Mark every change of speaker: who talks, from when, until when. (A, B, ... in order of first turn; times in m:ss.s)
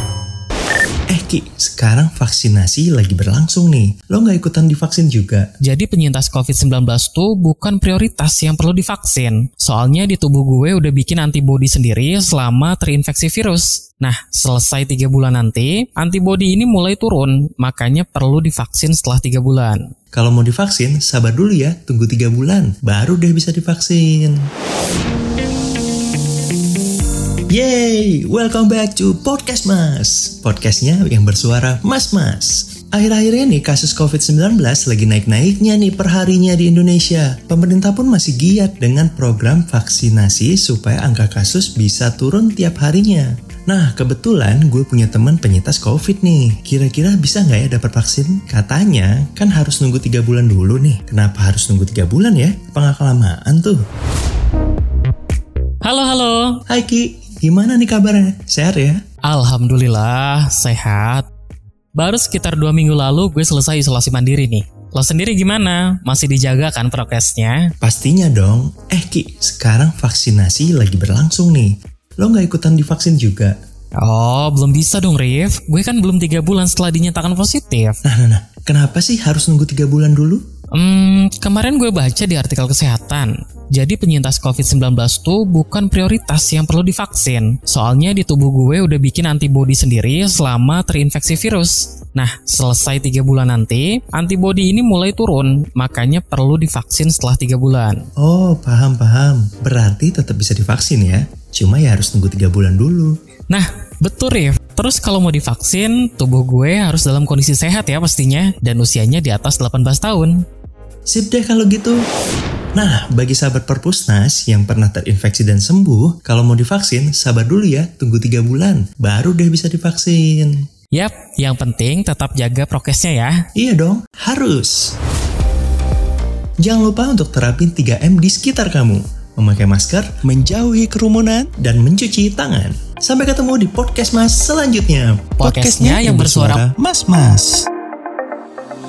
0:01.1-0:05.5 A
0:05.6-0:19.9 B
0:20.1-0:24.4 A
0:27.5-0:53.8 A
0:55.8-0:56.6 B
0:56.7-0:59.0 A
0:59.3-1:01.3 B
1:02.0-1:07.7 B
1:07.8-1:13.6 A
1:14.0-1:18.0 B
1:18.0-1:20.4 A
1:20.7-1:38.0 B
1:38.2-1:43.2 A
1:43.5-1:50.4 B
1:51.1-1:52.0 A
1:52.8-2:00.6 A
2:00.9-2:03.5 B
2:03.6-2:04.9 A
2:06.6-2:17.7 A
2:15.4-2:16.6 B